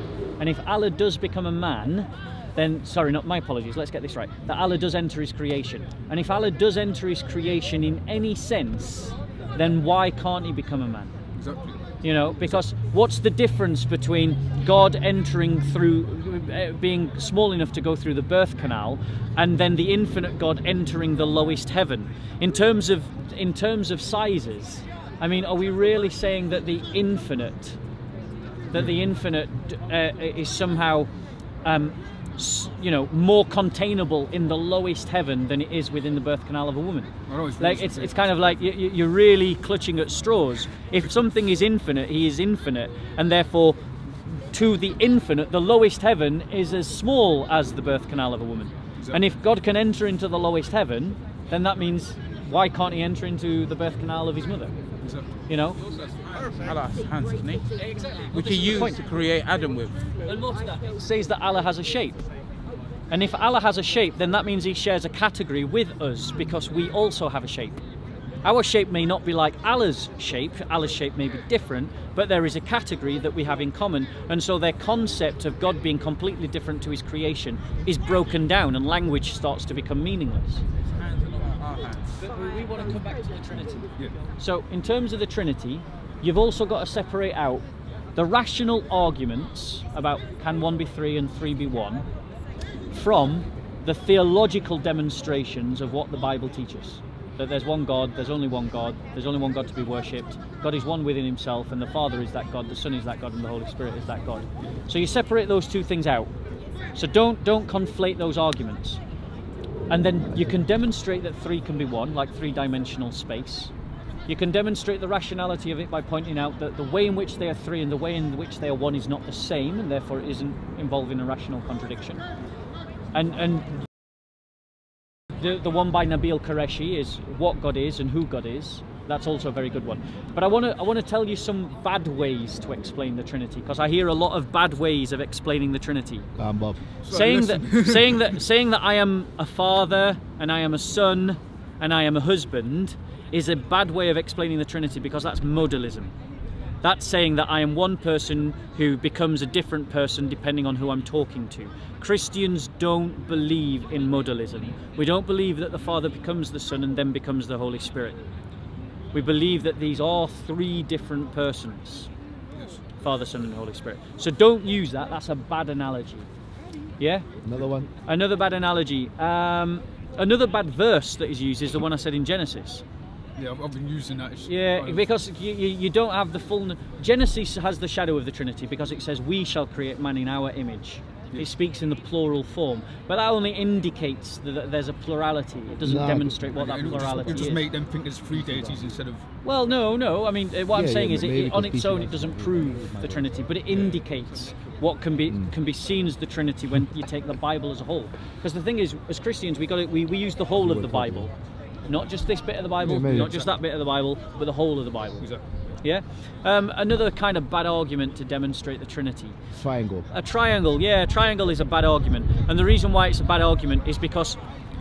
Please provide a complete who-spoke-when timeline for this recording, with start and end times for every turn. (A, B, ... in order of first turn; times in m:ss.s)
0:00.4-0:11.2 A
0:11.3-0:11.8 B
0:12.0-0:27.8 A
0:28.7-0:31.1 A
0:31.6-0:54.7 A
0:37.3-0:38.6 B
0:55.0-0:55.3 B
0:55.5-0:55.8 A
0:55.8-0:57.7 C
0:58.3-1:00.1 C
0:58.7-0:59.0 A
1:00.5-1:02.2 A
1:03.1-1:07.8 A
1:08.4-1:20.6 A
1:20.9-1:22.1 C
1:22.2-1:27.6 A
1:28.2-1:32.0 A
1:32.9-1:46.3 A
1:46.9-1:49.0 A
1:49.9-1:53.7 A
1:54.3-2:02.2 A
2:03.1-2:03.8 A
2:05.4-2:16.3 A
2:16.4-2:16.8 D
2:17.0-2:18.3 B
2:17.1-2:26.1 A
2:26.8-2:38.2 A
2:39.1-2:42.1 A
2:42.5-2:42.8 B
2:43.0-2:46.3 A
2:47.0-2:47.2 A
2:47.4-2:47.9 D
2:48.0-2:52.8 A
2:53.4-2:55.1 B
2:54.5-3:07.7 A
3:05.8-3:07.2 D
3:06.5-3:09.3 B
3:09.4-3:21.3 A
3:10.7-3:13.3 D
3:13.7-3:14.0 B
3:20.5-3:21.3 D
3:21.9-3:25.3 A
3:22.8-3:23.3 D
3:23.1-3:23.5 B
3:25.8-3:29.4 A
3:29.5-3:30.1 D
3:30.1-3:34.4 A